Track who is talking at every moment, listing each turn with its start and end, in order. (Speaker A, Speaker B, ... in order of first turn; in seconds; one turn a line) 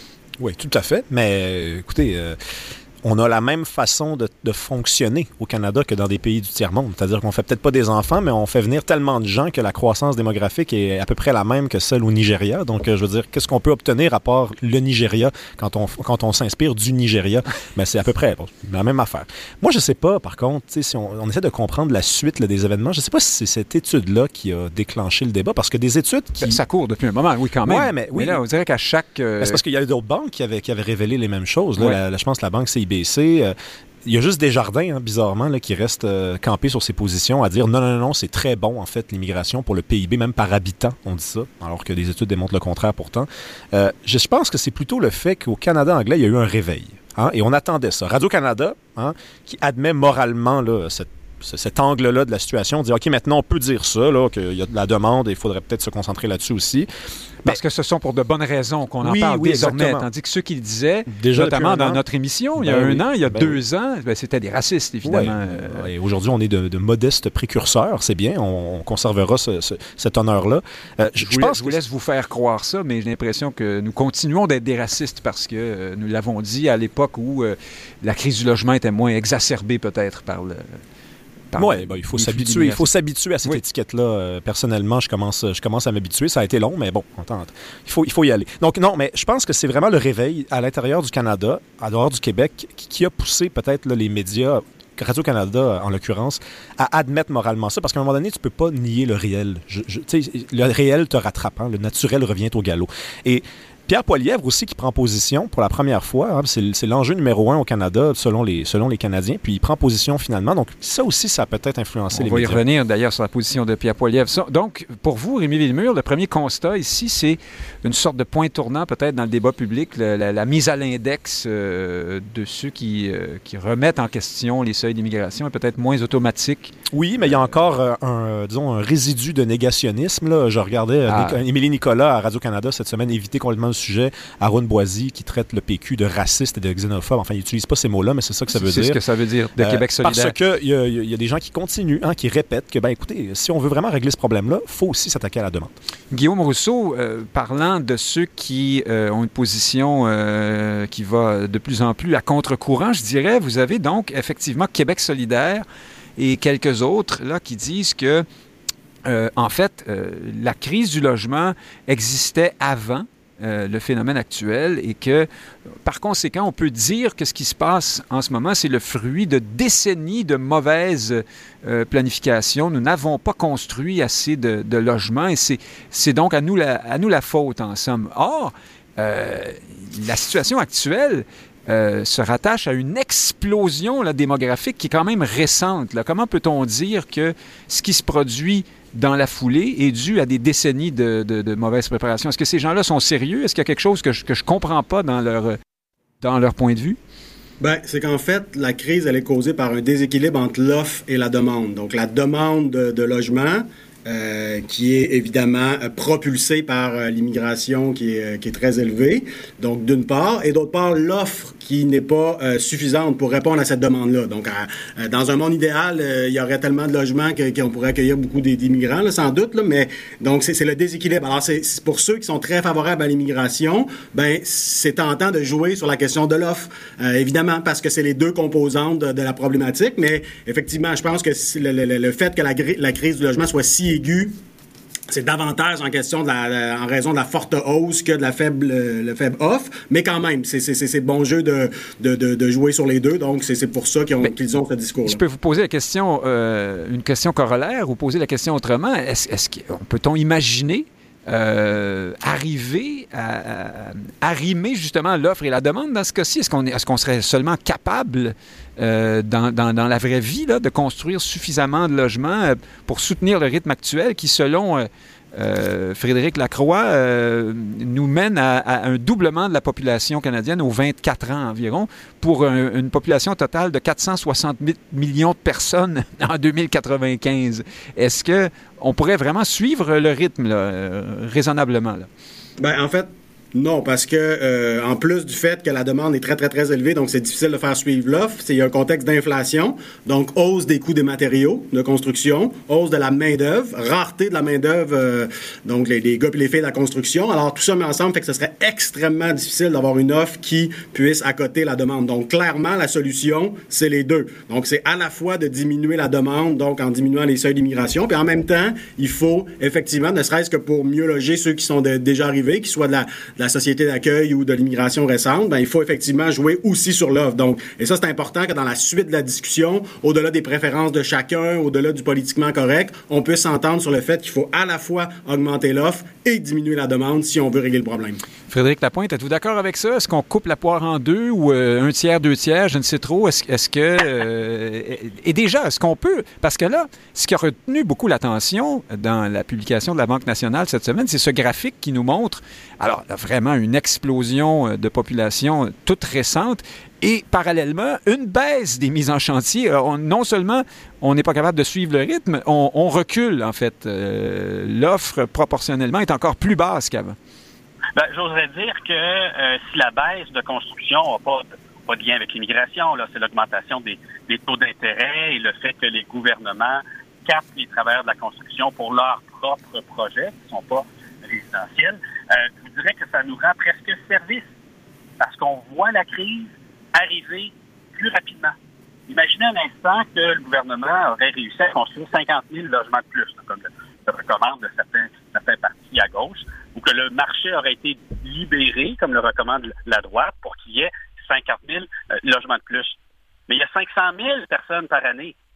Speaker A: 0.4-26.6
Speaker B: 26.4-29.6
Speaker A: 27.6-28.4
Speaker A: 29.4-33.5
Speaker A: 34.0-56.9
Speaker B: 57.5-65.9
Speaker A: 59.0-60.1
Speaker A: 61.1-62.0
Speaker A: 62.6-63.6
Speaker A: 65.0-71.8
Speaker B: 71.2-80.8
Speaker B: 81.5-82.9
Speaker A: 81.6-112.6
Speaker B: 112.1-126.7
Speaker A: 126.9-139.0
Speaker B: 131.1-131.4
Speaker B: 138.5-140.3
Speaker A: 139.6-145.7
Speaker B: 146.1-155.7
Speaker B: 156.2-158.2
Speaker B: 159.1-165.3
Speaker B: 165.8-195.6
Speaker B: 196.2-197.0
Speaker C: 197.6-234.3
Speaker C: 235.1-245.2
Speaker B: 245.1-282.1
Speaker C: 282.6-328.2
Speaker B: 328.5-357.2
Speaker D: 358.0-374.4
Speaker D: 375.2-378.6
Speaker D: 379.1-392.9
Speaker D: 393.5-395.4